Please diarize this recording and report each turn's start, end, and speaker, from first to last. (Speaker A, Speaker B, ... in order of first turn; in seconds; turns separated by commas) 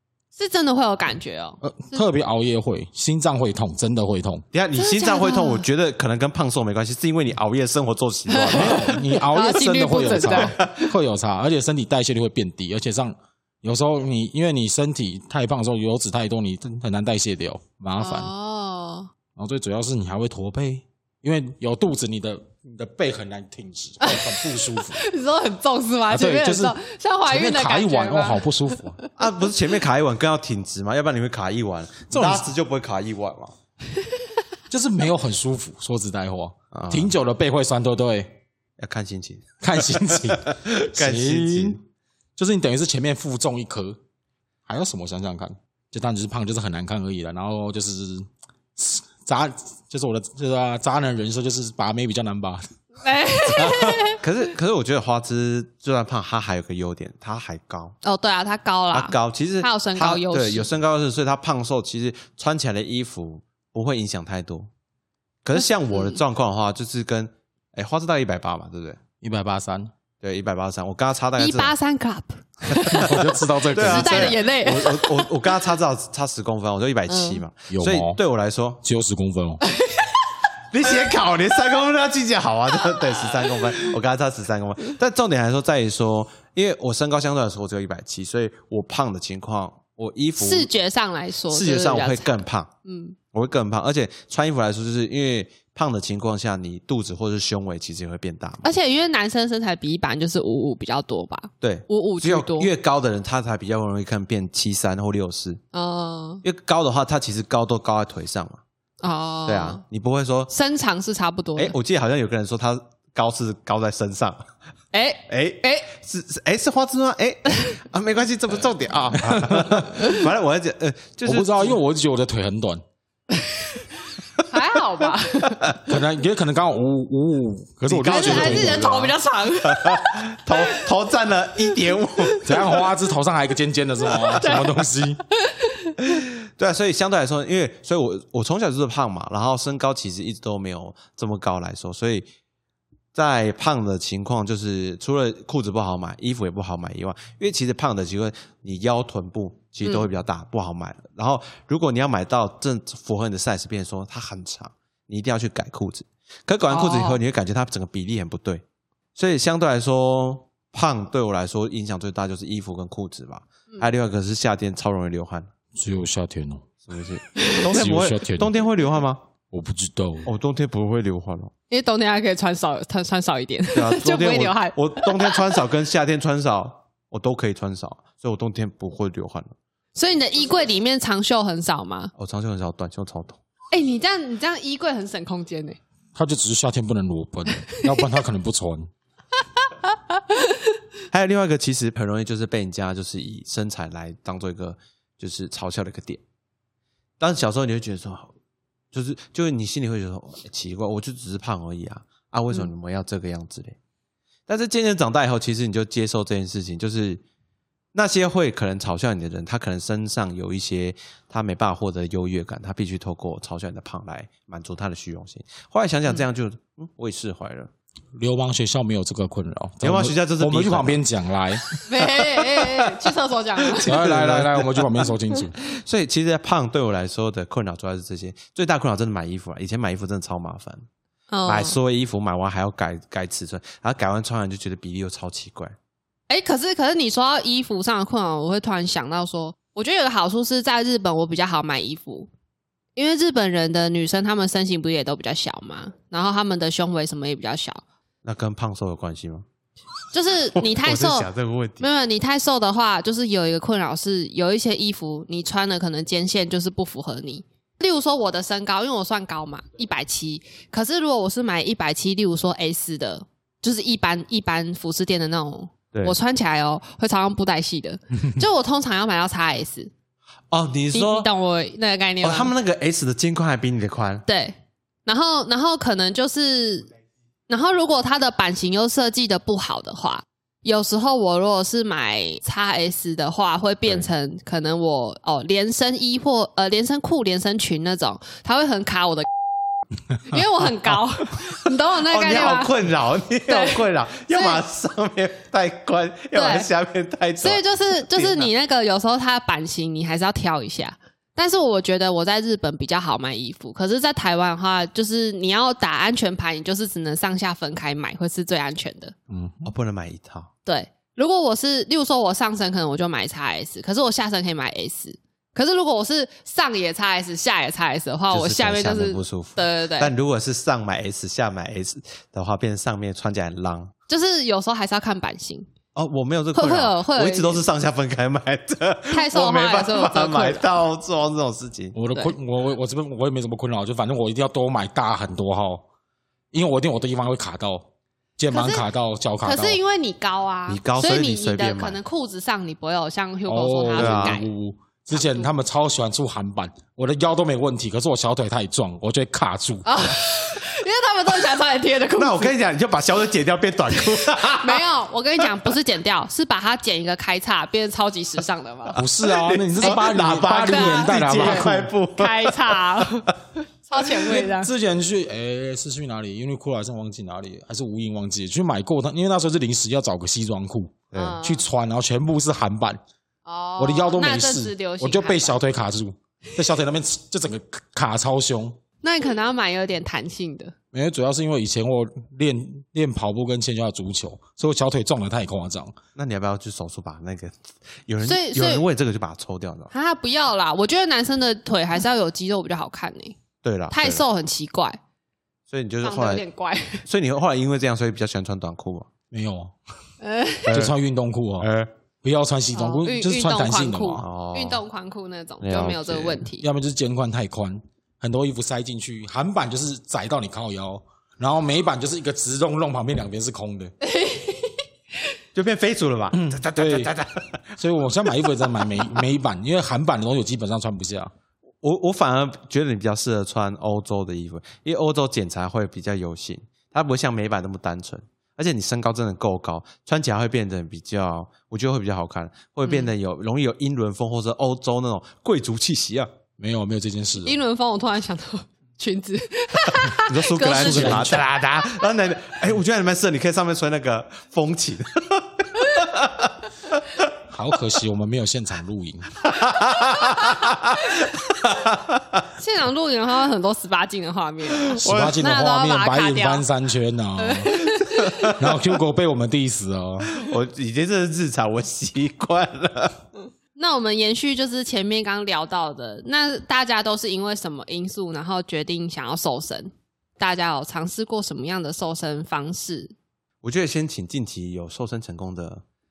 Speaker A: 0.3-2.0, Speaker B: 1.6-4.4, Speaker C: 4.5-9.0, Speaker A: 4.8-5.6, Speaker A: 8.3-10.6, Speaker B: 8.5-18.3, Speaker C: 10.5-10.8, Speaker A: 18.0-19.1, Speaker B: 19.4-25.0, Speaker A: 24.0-29.1, Speaker B: 26.1-29.0, Speaker C: 29.2-33.5, Speaker B: 32.1-32.5, Speaker B: 34.7-38.4, Speaker C: 36.7-37.1, Speaker C: 38.8-41.8, Speaker B: 39.6-41.8, Speaker B: 42.4-44.0, Speaker B: 44.6-52.6, Speaker A: 53.0-54.2, Speaker B: 53.5-54.0, Speaker C: 53.8-58.0, Speaker A: 58.0-60.7, Speaker C: 58.9-64.7, Speaker C: 65.4-69.0, Speaker A: 65.9-66.2, Speaker B: 69.2-69.9, Speaker C: 70.2-71.7, Speaker A: 71.4-73.2, Speaker C: 72.7-78.8, Speaker B: 72.9-74.4, Speaker A: 73.7-75.3, Speaker A: 77.1-77.4, Speaker B: 77.7-78.2, Speaker B: 78.8-79.6, Speaker A: 79.8-80.2, Speaker C: 80.7-90.7, Speaker A: 90.4-93.2, Speaker C: 91.5-92.7, Speaker C: 93.3-98.7, Speaker A: 98.6-102.7, Speaker C: 101.6-105.6, Speaker A: 105.7-106.4, Speaker C: 106.4-108.6, Speaker A: 109.0-109.8, Speaker C: 109.5-110.5, Speaker A: 110.5-111.7, Speaker C: 111.5-114.5, Speaker A: 114.9-115.9, Speaker C: 115.3-121.8, Speaker B: 119.2-119.9, Speaker B: 121.2-122.8, Speaker A: 124.5-125.8, Speaker B: 125.8-129.1, Speaker C: 127.9-129.1, Speaker A: 128.1-130.8, Speaker C: 129.6-132.7, Speaker A: 132.2-132.8, Speaker B: 132.4-135.2, Speaker A: 134.2-134.8, Speaker A: 135.4-136.0, Speaker C: 136.0-142.3, Speaker C: 143.1-158.6, Speaker A: 156.7-157.2, Speaker C: 159.1-165.5, Speaker B: 165.8-166.7, Speaker C: 166.9-169.2, Speaker B: 167.6-168.5, Speaker B: 169.5-170.3, Speaker C: 170.2-171.5, Speaker A: 171.7-175.6, Speaker C: 173.7-179.5, Speaker A: 179.9-182.1, Speaker C: 182.2-183.4, Speaker A: 183.7-185.8, Speaker B: 186.1-188.9, Speaker A: 187.7-188.0, Speaker C: 191.1-196.2, Speaker C: 197.2-198.3, Speaker C: 198.9-203.8, Speaker C: 204.5-207.2, Speaker C: 207.9-217.7, Speaker B: 218.1-221.6, Speaker C: 219.8-221.0, Speaker C: 221.7-222.9, Speaker A: 221.8-223.9, Speaker C: 223.7-230.8, Speaker B: 223.8-225.5, Speaker A: 231.3-231.8, Speaker C: 231.4-235.7, Speaker A: 236.3-242.3, Speaker A: 242.9-247.8, Speaker C: 248.2-249.4, Speaker A: 250.1-251.3, Speaker C: 250.6-251.9, Speaker A: 251.8-269.9, Speaker C: 270.5-271.3, Speaker A: 270.9-272.5, Speaker C: 272.2-274.2, Speaker A: 274.3-274.5, Speaker A: 275.1-276.9, Speaker A: 277.5-289.3, Speaker A: 290.3-292.7, Speaker C: 292.0-298.5, Speaker A: 293.5-294.6, Speaker A: 296.3-296.7, Speaker A: 297.4-309.1, Speaker B: 309.3-309.7, Speaker C: 309.6-310.5, Speaker A: 310.6-320.1, Speaker C: 318.3-323.9, Speaker A: 324.1-325.7, Speaker C: 325.9-331.9, Speaker A: 326.5-327.6, Speaker A: 329.1-330.6, Speaker B: 331.9-335.8, Speaker B: 336.5-339.8, Speaker A: 338.5-338.9, Speaker A: 339.4-344.5, Speaker C: 340.7-342.0, Speaker B: 343.5-349.9, Speaker C: 344.0-344.3, Speaker A: 345.1-345.5, Speaker A: 349.9-352.5, Speaker C: 352.1-354.8, Speaker A: 354.1-359.0, Speaker B: 358.9-361.9, Speaker C: 359.2-363.3, Speaker A: 359.8-364.7, Speaker B: 364.3-373.0, Speaker C: 371.1-371.4, Speaker A: 371.1-371.6, Speaker A: 373.4-375.6, Speaker B: 373.8-378.8, Speaker A: 379.0-380.7, Speaker B: 380.9-385.9, Speaker C: 386.1-389.9, Speaker A: 388.2-388.8, Speaker A: 389.9-393.4, Speaker C: 393.6-394.2, Speaker A: 393.9-395.0, Speaker C: 395.7-396.4, Speaker A: 396.0-397.0, Speaker C: 397.0-399.1, Speaker B: 399.3-399.7, Speaker A: 400.2-400.8, Speaker C: 400.7-400.9, Speaker B: 400.7-401.7, Speaker C: 401.6-401.9, Speaker B: 402.2-404.2, Speaker A: 402.7-406.6, Speaker C: 404.2-404.8, Speaker C: 405.6-406.4, Speaker B: 406.6-413.9, Speaker A: 414.0-414.7, Speaker C: 415.5-417.8, Speaker B: 416.3-417.1, Speaker B: 417.8-421.3, Speaker C: 421.8-436.3, Speaker A: 432.8-433.1, Speaker B: 436.6-437.6, Speaker A: 437.4-441.4, Speaker C: 440.2-447.2, Speaker B: 440.7-441.5, Speaker B: 447.5-449.3, Speaker C: 449.4-452.4, Speaker A: 452.6-456.7, Speaker C: 454.8-455.4, Speaker B: 454.9-457.9, Speaker A: 457.4-458.5, Speaker C: 458.0-458.6, Speaker B: 458.5-460.3, Speaker C: 460.3-463.2, Speaker A: 463.8-473.1, Speaker C: 473.6-475.8